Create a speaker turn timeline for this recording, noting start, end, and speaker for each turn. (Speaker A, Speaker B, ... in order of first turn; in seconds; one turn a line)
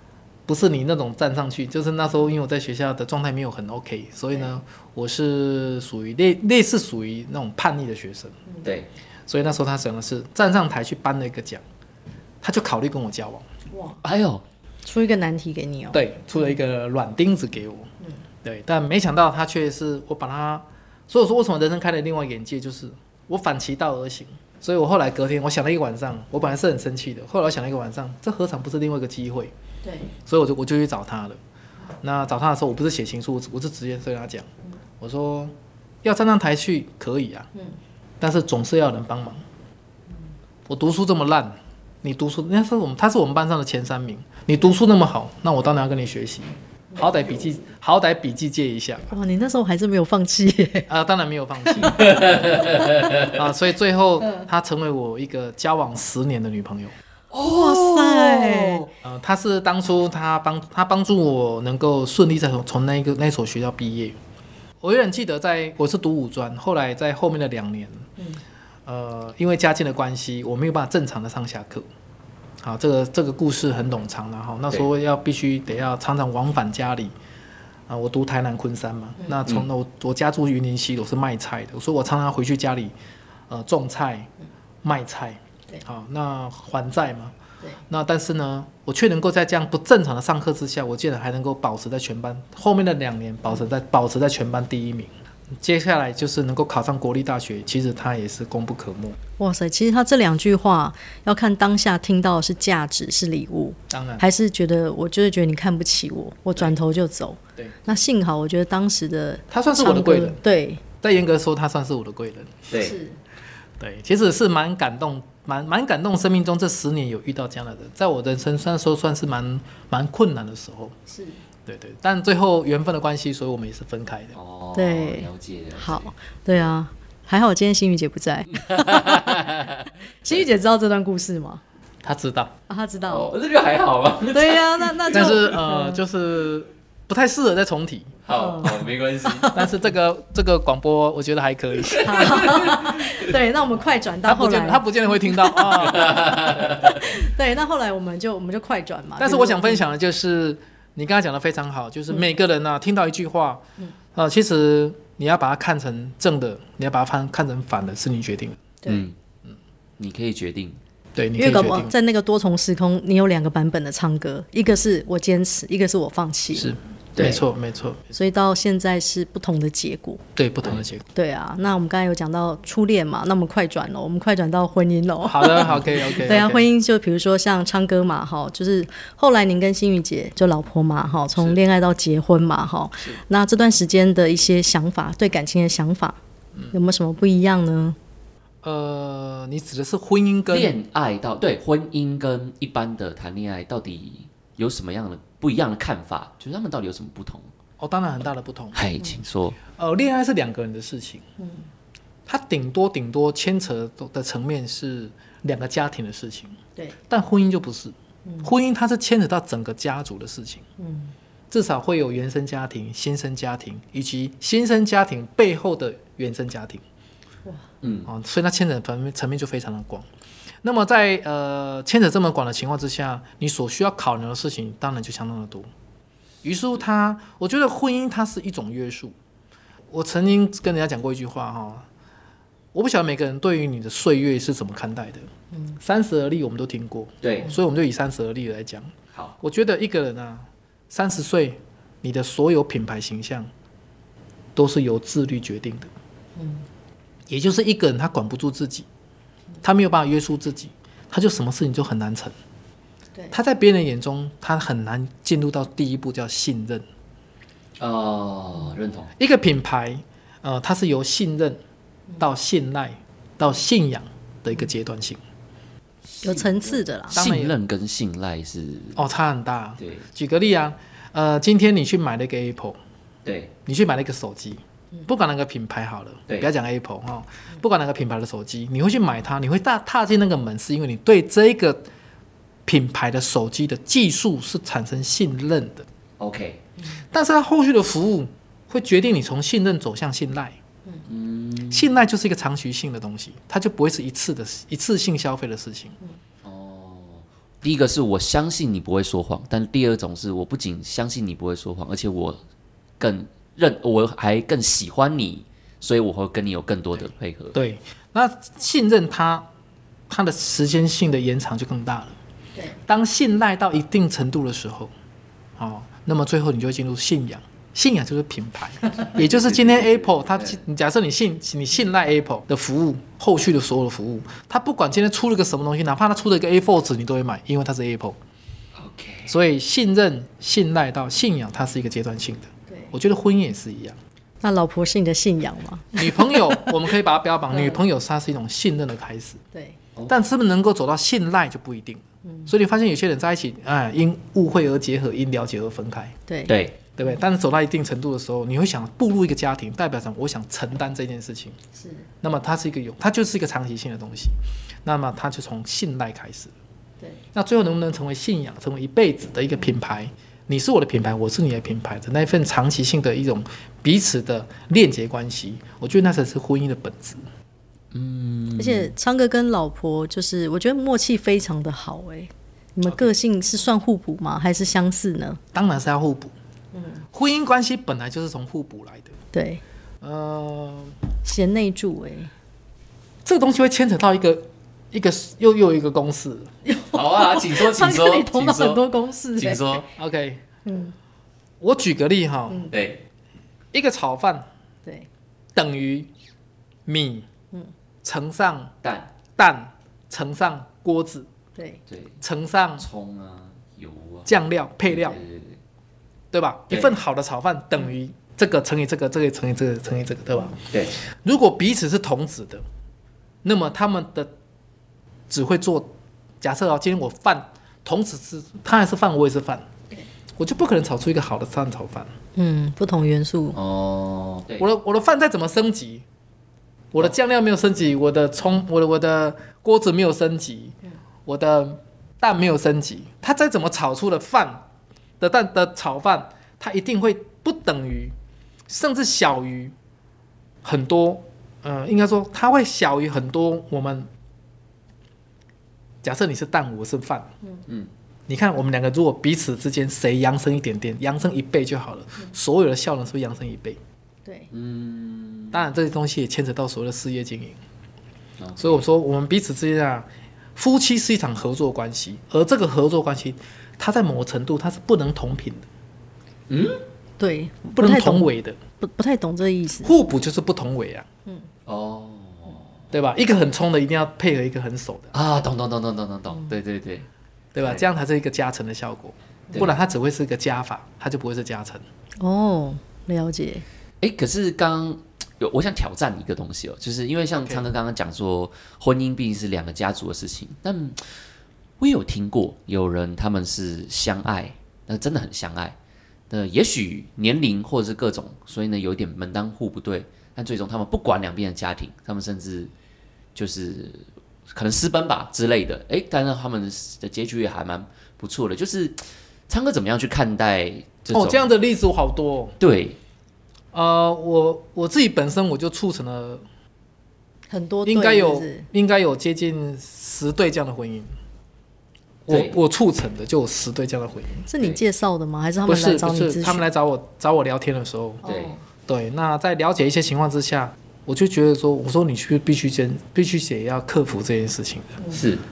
Speaker A: 0.5-8.3
Speaker B: 8.6-8.9
Speaker A: 9.3-11.6
Speaker A: 12.4-13.4
Speaker C: 13.7-14.0
Speaker B: 14.0-14.4
Speaker C: 14.8-16.0
Speaker A: 15.9-17.9
Speaker A: 18.4-29.5
Speaker C: 29.8-30.1
Speaker A: 30.2-31.4
Speaker A: 32.0-37.5
Speaker A: 38.2-39.4
Speaker A: 40.7-49.1
Speaker C: 49.1-50.9
Speaker A: 50.9-52.5
Speaker C: 51.6-52.0
Speaker B: 51.8-53.4
Speaker A: 53.2-56.9
Speaker B: 57.3-58.9
Speaker C: 57.4-58.9
Speaker A: 59.0-64.2
Speaker A: 64.8-68.1
Speaker A: 68.8-71.9
Speaker A: 72.6-77.1
Speaker A: 77.9-82.9
Speaker A: 83.5-84.3
Speaker A: 84.8-87.3
Speaker A: 87.9-99.2
Speaker C: 99.4-110.8
Speaker A: 103.9-104.2
Speaker A: 109.5-110.4
Speaker A: 111.0-112.7
Speaker B: 112.7-113.0
Speaker C: 112.7-113.2
Speaker A: 113.8-120.9
Speaker C: 121.1-121.4
Speaker A: 121.7-124.3
Speaker B: 124.3-126.1
Speaker C: 124.7-131.6
Speaker B: 128.5-129.9
Speaker A: 132.0-132.5
Speaker C: 132.7-133.3
Speaker B: 133.1-135.4
Speaker C: 134.3-136.0
Speaker A: 135.1-138.2
Speaker B: 138.2-139.6
Speaker C: 138.3-139.6
Speaker A: 139.5-142.8
Speaker B: 141.9-143.2
Speaker C: 142.0-149.9
Speaker A: 144.2-146.8
Speaker B: 145.7-147.1
Speaker A: 149.2-153.6
Speaker A: 154.1-158.6
Speaker C: 158.8-159.1
Speaker B: 158.9-159.2
Speaker B: 160.0-160.8
Speaker A: 161.1-161.9
Speaker C: 161.4-167.4
Speaker A: 166.5-168.1
Speaker B: 167.1-167.4
Speaker C: 168.1-170.2
Speaker A: 170.3-171.1
Speaker C: 171.1-186.2
Speaker A: 175.2-176.7
Speaker C: 186.7-188.0
Speaker A: 188.6-190.7
Speaker B: 190.5-197.5
Speaker A: 197.8-198.8
Speaker B: 198.7-199.6
Speaker A: 199.7-201.2
Speaker C: 201.4-201.7
Speaker A: 202.2-206.6
Speaker A: 207.1-210.6
Speaker C: 208.2-208.5
Speaker C: 210.8-211.1
Speaker A: 211.5-216.8
Speaker B: 217.8-218.1
Speaker A: 218.1-220.1
Speaker A: 220.6-225.7
Speaker A: 226.4-229.1
Speaker A: 229.9-231.8
Speaker A: 232.7-235.3
Speaker A: 235.8-243.5
Speaker B: 237.2-237.5
Speaker A: 244.6-245.9
Speaker C: 246.4-246.6
Speaker A: 247.3-248.9
Speaker A: 249.6-252.3
Speaker A: 253.3-256.8
Speaker B: 257.8-259.1
Speaker A: 259.2-261.6
Speaker A: 262.2-265.2
Speaker B: 266.1-269.0
Speaker C: 266.2-267.2
Speaker A: 267.1-267.5
Speaker A: 268.9-272.8
Speaker B: 269.8-270.0
Speaker B: 273.2-273.5
Speaker A: 273.6-281.8
Speaker A: 282.6-285.9
Speaker B: 286.2-286.6
Speaker A: 287.1-290.6
Speaker B: 291.1-291.9
Speaker A: 291.7-295.9
Speaker B: 296.4-302.4
Speaker B: 303.0-307.6
Speaker A: 307.5-309.5
Speaker A: 310.1-312.1
Speaker A: 312.9-314.9
Speaker A: 315.6-328.2
Speaker B: 319.0-320.6
Speaker B: 328.7-329.4
Speaker A: 329.3-334.0
Speaker C: 332.7-332.9
Speaker C: 334.4-336.7
Speaker A: 335.9-339.4
Speaker C: 337.5-337.8
Speaker A: 340.1-346.1
Speaker C: 342.2-342.5
Speaker C: 346.3-346.5
Speaker B: 346.5-346.8
Speaker A: 346.9-351.6
Speaker C: 351.7-352.1
Speaker A: 352.2-356.5
Speaker A: 357.3-367.2
Speaker B: 367.9-368.9
Speaker C: 368.6-375.4
Speaker A: 375.5-376.3
Speaker C: 376.7-377.0
Speaker A: 377.1-379.1
Speaker C: 379.3-379.6
Speaker A: 380.0-381.0
Speaker C: 381.2-382.3
Speaker A: 383.2-386.5
Speaker C: 386.6-389.8
Speaker B: 386.9-389.9
Speaker A: 389.9-390.4
Speaker C: 390.6-390.9
Speaker A: 391.6-392.7
Speaker B: 392.7-393.0
Speaker A: 393.7-394.5
Speaker A: 395.5-396.1
Speaker A: 396.9-397.3
Speaker A: 398.0-398.7
Speaker B: 398.8-399.1
Speaker A: 399.3-401.3
Speaker C: 401.6-401.8
Speaker B: 401.9-402.2
Speaker A: 402.2-402.9
Speaker B: 402.8-405.6
Speaker A: 404.2-405.2
Speaker A: 406.3-410.6
Speaker B: 406.7-407.0
Speaker B: 410.7-410.9
Speaker A: 411.2-412.6
Speaker A: 413.4-414.3
Speaker A: 415.3-419.7
Speaker A: 420.4-422.1
Speaker C: 422.4-423.6
Speaker B: 423.5-424.6
Speaker A: 424.6-426.0
Speaker A: 426.9-434.6
Speaker A: 435.2-438.1
Speaker A: 438.7-439.7
Speaker A: 440.6-444.1
Speaker A: 446.0-447.3
Speaker A: 448.3-453.8
Speaker B: 454.5-455.6
Speaker A: 455.5-457.6
Speaker B: 458.4-458.8
Speaker A: 458.6-465.7
Speaker B: 466.5-466.8
Speaker C: 467.2-469.9
Speaker A: 467.8-468.6
Speaker A: 469.8-471.1
Speaker B: 471.6-472.7
Speaker A: 472.9-475.1
Speaker B: 475.1-477.1
Speaker A: 477.5-481.8
Speaker C: 482.2-483.6
Speaker B: 484.0-491.1
Speaker B: 491.8-495.8
Speaker B: 496.3-502.7
Speaker B: 503.3-511.5
Speaker A: 511.1-512.6
Speaker B: 512.6-513.0
Speaker A: 513.7-516.4
Speaker C: 517.5-518.7
Speaker A: 517.8-521.1
Speaker A: 522.2-524.5
Speaker B: 522.3-522.5
Speaker C: 524.5-526.6
Speaker A: 525.7-528.2
Speaker C: 528.2-528.6
Speaker B: 528.2-528.5
Speaker A: 528.9-535.0
Speaker B: 535.1-535.4